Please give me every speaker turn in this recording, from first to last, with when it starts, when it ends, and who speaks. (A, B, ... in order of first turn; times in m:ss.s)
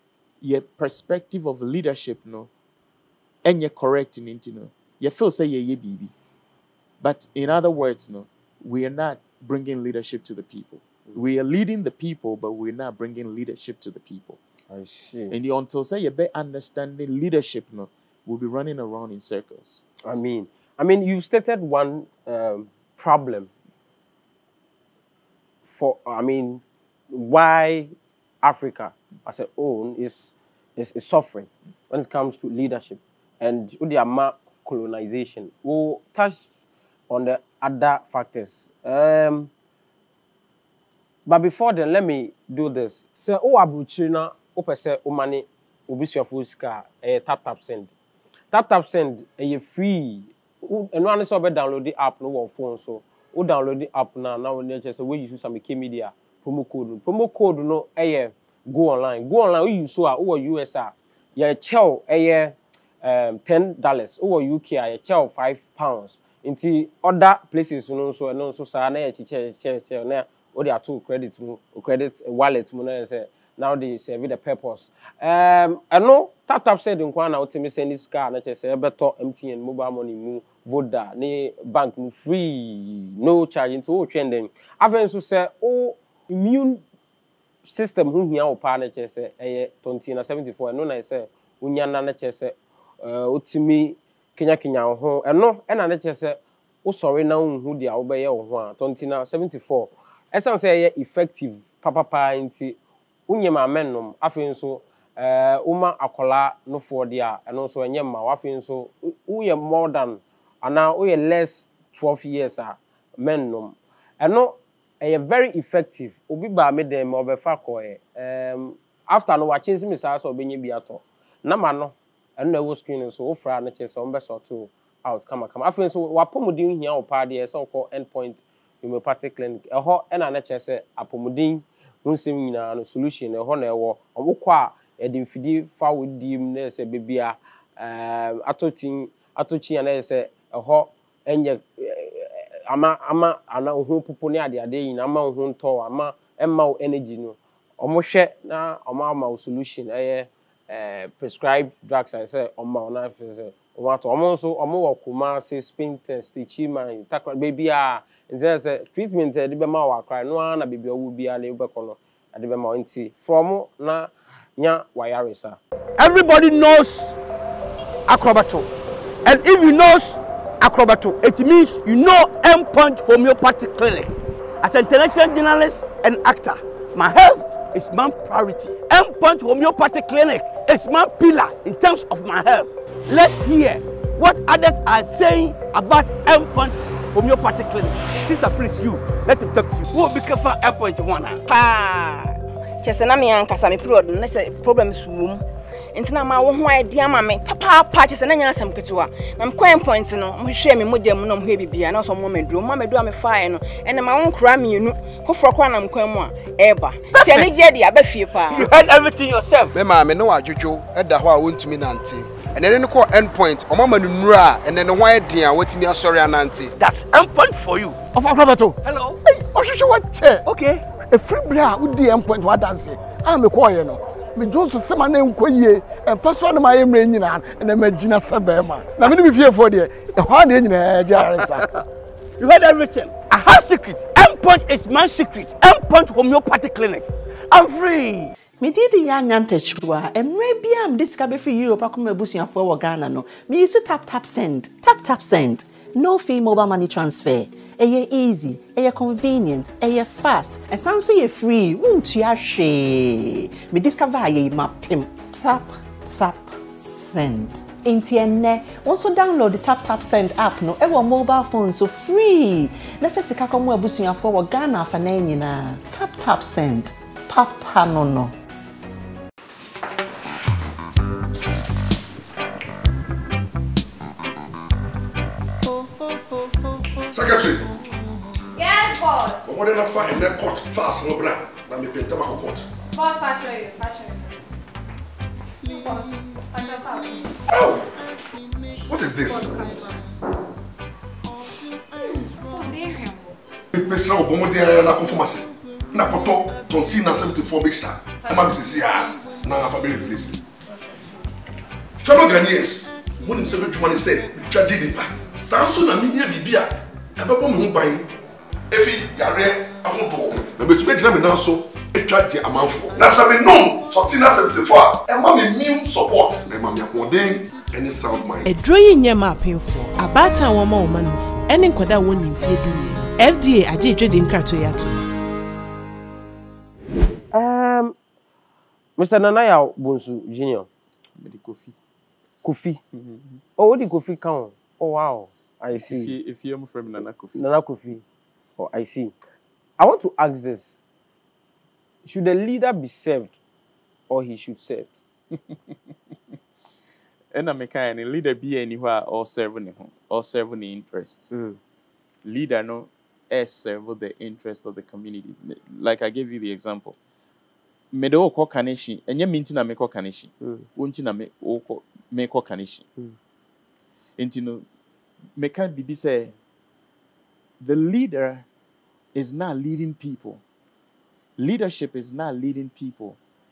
0:00.4-0:02.5 A
0:03.4-0:06.1 A
0:07.0-0:14.4 A
0:14.7-0:15.3 B
0:15.3-0:19.8 A
0:20.0-0:23.5 B
0:25.6-0:36.4 B
0:37.1-0:39.5 B
0:41.2-0:47.9 B
0:48.5-1:26.8 B
1:27.6-1:42.8 B
1:43.3-2:45.6 B
2:46.0-2:47.2 C
2:48.0-2:48.7 C
2:49.2-3:11.4 C
3:11.5-3:28.7 D
3:27.1-3:27.5 C
3:28.5-3:29.7 C
3:29.7-3:36.7 E
3:36.8-3:38.2 C
3:38.1-3:40.4 F
3:38.8-3:39.2 C
3:40.4-3:40.8 C
3:41.0-3:51.7 F
3:52.4-3:58.3 C
3:58.5-4:28.3 G
4:37.1-4:37.7 H
4:38.5-4:39.4 I
4:39.4-4:42.7 H
4:42.9-4:44.4 I
4:45.7-4:47.3 I
4:47.5-4:47.9 H
4:48.9-4:49.8 H
4:52.3-4:53.2 I
4:53.7-5:00.4 H
5:02.0-5:08.1 H
5:08.7-5:18.5 H
5:18.4-5:25.0 J
5:27.3-5:27.9 B
5:29.0-5:30.7 B
5:31.2-5:31.7 A
5:32.4-5:32.8 B
5:32.9-5:33.4 A
5:33.6-5:36.1 B
5:35.7-5:37.4 A
5:37.3-5:38.0 B
5:38.6-5:39.1 B
5:39.8-5:40.8 B
5:42.0-5:43.3 B
5:44.1-5:44.9 B
5:45.3-5:45.7 A
5:47.3-5:51.3 A
5:51.3-5:51.6 B
5:52.2-5:57.0 A
5:57.9-6:02.8 A
6:00.4-6:00.7 B
6:04.2-6:04.6 A
6:05.4-6:06.3 A
6:07.6-6:08.4 A
6:09.1-6:10.4 A
6:11.4-6:13.2 A